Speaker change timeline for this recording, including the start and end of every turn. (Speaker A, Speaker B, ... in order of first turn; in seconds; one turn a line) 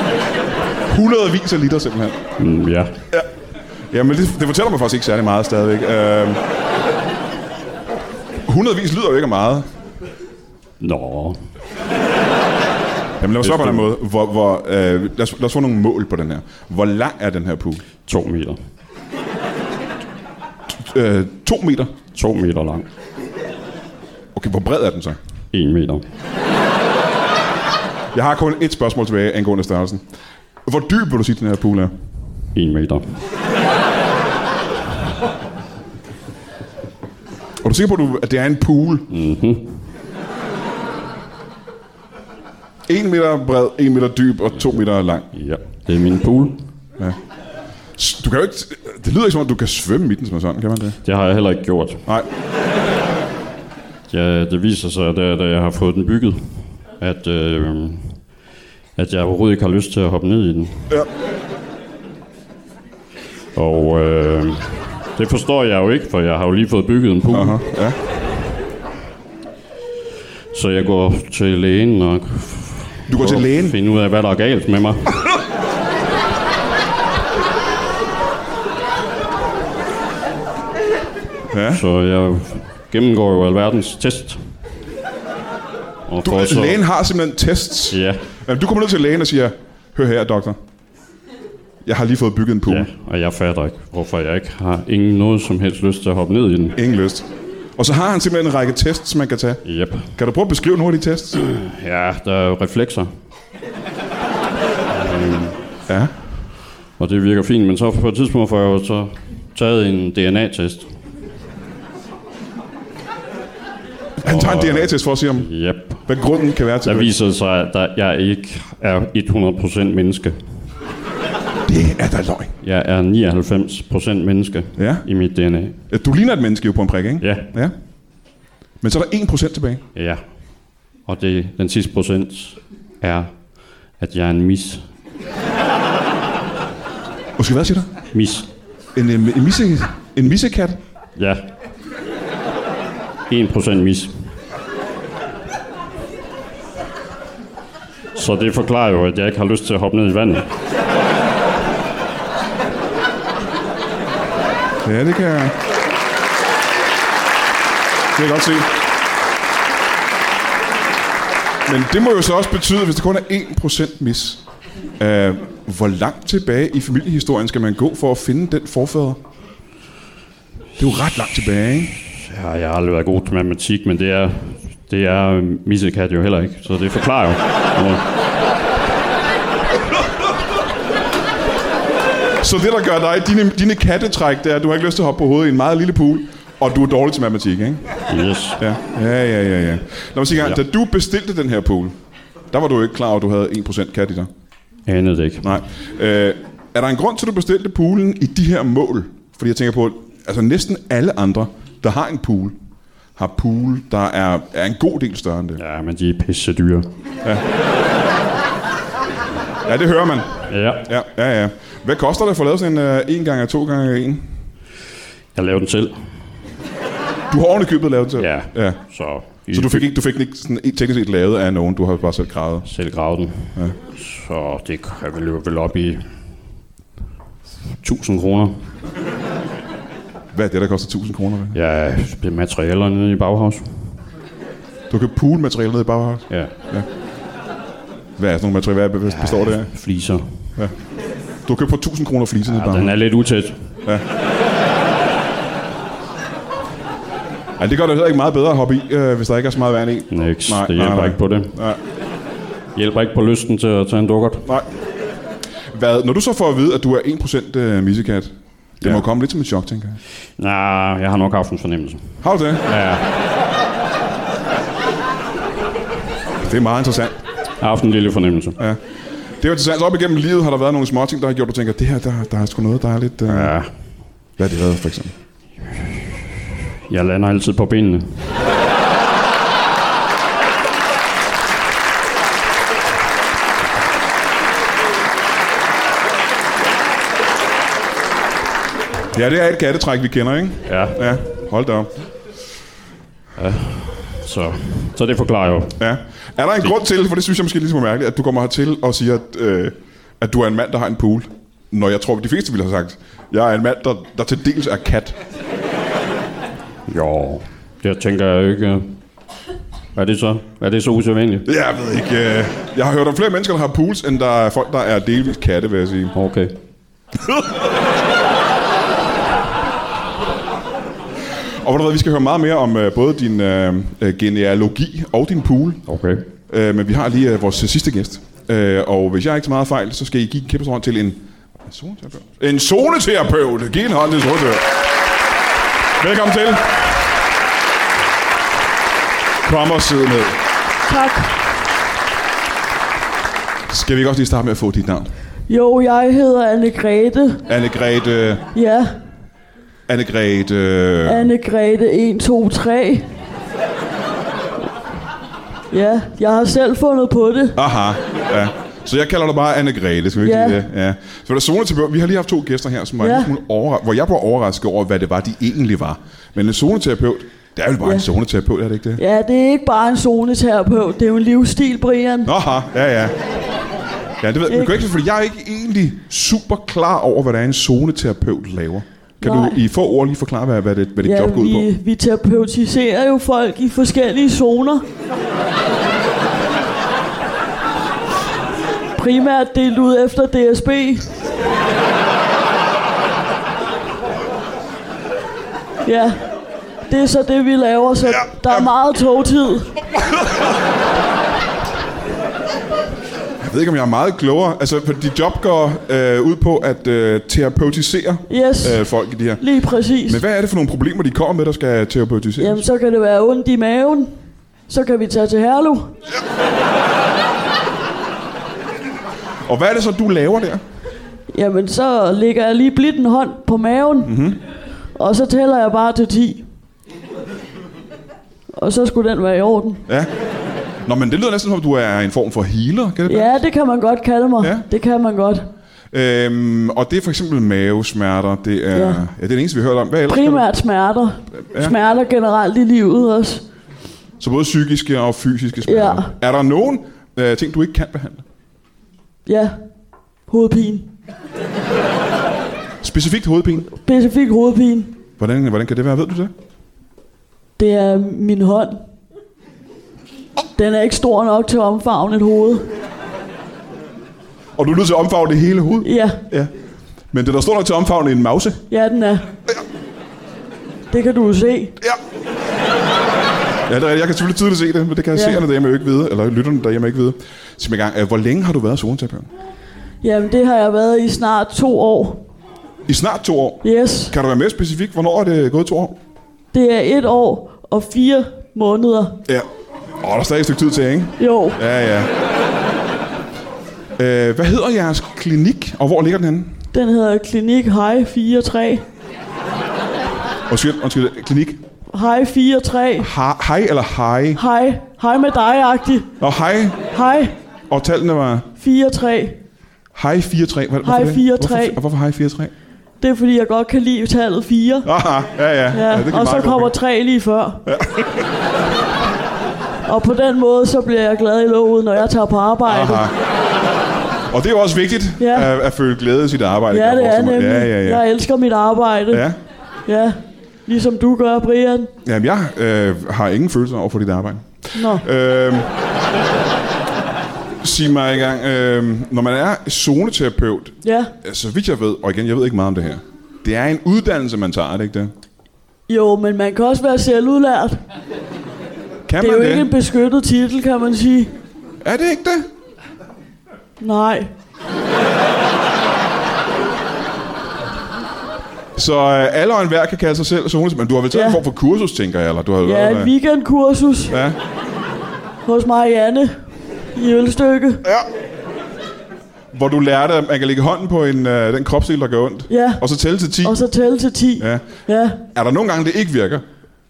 Speaker A: 0.9-2.2
Speaker B: 2.4-2.9
Speaker A: 3.9-6.4
Speaker A: 8.4-9.7
Speaker B: 10.8-11.4
Speaker A: 13.2-17.8
Speaker B: 13.4-13.9
Speaker B: 18.0-18.6
Speaker A: 20.7-21.9
Speaker B: 22.1-22.9
Speaker A: 24.3-25.2
Speaker B: 25.5-26.0
Speaker A: 28.1-30.0
Speaker A: 30.6-31.9
Speaker B: 32.5-33.2
Speaker A: 37.6-39.1
Speaker B: 39.1-39.9
Speaker A: 42.9-45.3
Speaker B: 45.3-46.6
Speaker A: 48.0-51.0
Speaker B: 51.0-52.0
Speaker B: 54.1-58.2
Speaker B: 59.0-60.9
Speaker B: 63.5-67.6
Speaker A: 67.3-68.0
Speaker B: 70.5-75.2
Speaker A: 73.1-73.8
Speaker A: 81.5-81.8
Speaker B: 81.7-84.5
Speaker B: 86.0-86.8
Speaker A: 86.2-90.6
Speaker B: 87.9-88.2
Speaker A: 91.8-92.9
Speaker B: 92.7-96.8
Speaker A: 96.8-97.2
Speaker A: 97.8-101.4
Speaker B: 99.6-100.1
Speaker B: 101.4-103.1
Speaker B: 104.9-105.6
Speaker B: 107.0-110.9
Speaker A: 114.2-115.5
Speaker B: 114.2-116.1
Speaker A: 116.0-117.1
Speaker B: 116.8-120.6
Speaker A: 121.7-122.5
Speaker B: 122.6-125.8
Speaker A: 124.8-125.1
Speaker A: 125.9-127.7
Speaker B: 127.2-127.5
Speaker A: 128.8-129.8
Speaker B: 129.9-130.2
Speaker B: 131.0-134.9
Speaker A: 137.4-137.9
Speaker B: 138.1-138.5
Speaker A: 138.9-140.8
Speaker B: 141.2-141.5
Speaker B: 143.3-144.3
Speaker B: 148.1-150.5
Speaker A: 154.8-155.6
Speaker A: 158.1-158.7
Speaker A: 161.7-164.4
Speaker A: 165.0-169.2
Speaker A: 170.8-172.0
Speaker B: 172.2-178.0
Speaker A: 182.4-187.9
Speaker B: 188.1-188.6
Speaker A: 188.6-191.9
Speaker A: 192.5-194.3
Speaker B: 194.9-195.6
Speaker A: 195.4-202.6
Speaker A: 203.2-205.6
Speaker B: 205.6-206.9
Speaker A: 209.6-214.2
Speaker B: 210.5-210.9
Speaker B: 215.3-216.2
Speaker A: 217.3-222.7
Speaker B: 218.2-219.9
Speaker B: 222.7-226.1
Speaker B: 227.8-228.7
Speaker A: 230.3-231.6
Speaker B: 231.5-234.0
Speaker A: 234.9-236.9
Speaker A: 238.2-239.7
Speaker B: 239.1-240.5
Speaker A: 241.4-243.0
Speaker B: 242.5-243.8
Speaker A: 247.6-251.8
Speaker B: 250.1-251.6
Speaker B: 252.8-254.5
Speaker A: 255.7-260.0
Speaker B: 260.4-263.1
Speaker A: 262.2-262.7
Speaker A: 266.4-267.1
Speaker B: 267.6-268.6
Speaker A: 269.4-273.5
Speaker B: 273.3-274.0
Speaker A: 274.4-275.1
Speaker B: 276.9-278.3
Speaker A: 289.1-291.9
Speaker B: 290.6-291.2
Speaker B: 293.4-295.8
Speaker A: 295.8-305.2
Speaker B: 306.9-308.9
Speaker B: 309.9-311.5
Speaker A: 311.4-316.1
Speaker B: 316.1-316.5
Speaker A: 321.6-325.8
Speaker B: 325.9-326.2
Speaker A: 326.5-334.8
Speaker A: 336.0-336.8
Speaker A: 339.4-340.4
Speaker C: 340.9-341.4
Speaker A: 343.7-345.1
Speaker C: 345.5-347.4
Speaker A: 347.5-348.4
Speaker C: 348.5-348.9
Speaker A: 349.9-351.3
Speaker C: 351.0-353.1
Speaker C: 355.7-357.6
Speaker A: 357.6-369.0
Speaker C: 360.2-360.6
Speaker C: 363.0-363.3
Speaker C: 369.0-372.3
Speaker A: 372.2-373.2
Speaker A: 374.2-381.7
Speaker C: 374.5-374.8
Speaker C: 379.2-379.6
Speaker C: 381.0-384.8
Speaker C: 388.9-391.1
Speaker C: 395.8-396.2
Speaker C: 396.9-399.7
Speaker A: 398.1-398.7
Speaker A: 400.0-400.4
Speaker A: 403.4-409.4
Speaker C: 408.3-408.8
Speaker C: 409.4-410.2
Speaker A: 410.0-412.6
Speaker C: 412.4-414.1
Speaker C: 414.7-415.9
Speaker A: 419.4-420.6
Speaker C: 421.3-424.1
Speaker A: 424.0-424.4
Speaker C: 424.9-426.4
Speaker C: 428.5-429.8
Speaker A: 430.8-433.4
Speaker C: 433.1-435.4
Speaker A: 434.4-434.6
Speaker A: 435.9-440.4
Speaker C: 438.7-439.0
Speaker C: 440.1-443.4
Speaker A: 441.3-441.7
Speaker A: 444.2-448.2
Speaker C: 445.6-446.1
Speaker C: 449.2-449.6
Speaker C: 450.3-450.9
Speaker A: 452.8-453.7
Speaker C: 453.8-454.9
Speaker A: 455.2-456.3
Speaker C: 457.6-458.8
Speaker C: 460.6-462.7
Speaker A: 464.6-466.5
Speaker C: 465.8-466.2
Speaker A: 467.1-468.6
Speaker C: 468.7-469.3
Speaker C: 470.9-471.7
Speaker A: 473.6-479.3
Speaker C: 475.1-475.4
Speaker C: 480.0-482.2
Speaker A: 482.9-486.0
Speaker C: 483.6-484.1
Speaker C: 486.5-489.2
Speaker A: 490.0-492.1
Speaker C: 491.2-491.6
Speaker A: 494.0-496.6
Speaker C: 496.7-498.8
Speaker A: 500.5-501.6
Speaker C: 501.9-503.1
Speaker A: 503.0-504.4
Speaker C: 504.4-506.1
Speaker A: 506.2-506.9
Speaker C: 506.9-507.3
Speaker A: 507.7-508.5
Speaker C: 508.6-509.4
Speaker A: 509.9-512.5
Speaker C: 510.8-511.8
Speaker C: 513.0-514.9
Speaker A: 514.8-516.7
Speaker C: 515.7-517.6
Speaker A: 517.6-518.2
Speaker C: 519.8-523.0
Speaker A: 522.6-523.1
Speaker A: 524.3-528.0
Speaker C: 525.2-525.5
Speaker C: 526.7-529.3
Speaker A: 529.1-529.4
Speaker C: 529.9-531.9
Speaker A: 532.0-535.7
Speaker C: 534.7-535.0
Speaker A: 537.6-545.1
Speaker C: 540.8-541.1
Speaker C: 545.9-547.8
Speaker A: 549.0-549.7
Speaker C: 549.2-551.3
Speaker A: 551.8-552.5
Speaker C: 553.8-554.3
Speaker A: 558.8-563.1
Speaker C: 561.1-561.4
Speaker C: 562.6-564.1
Speaker A: 564.1-564.4
Speaker C: 565.4-567.8
Speaker A: 569.5-573.6
Speaker C: 572.5-572.8
Speaker C: 573.4-575.2
Speaker A: 575.2-576.4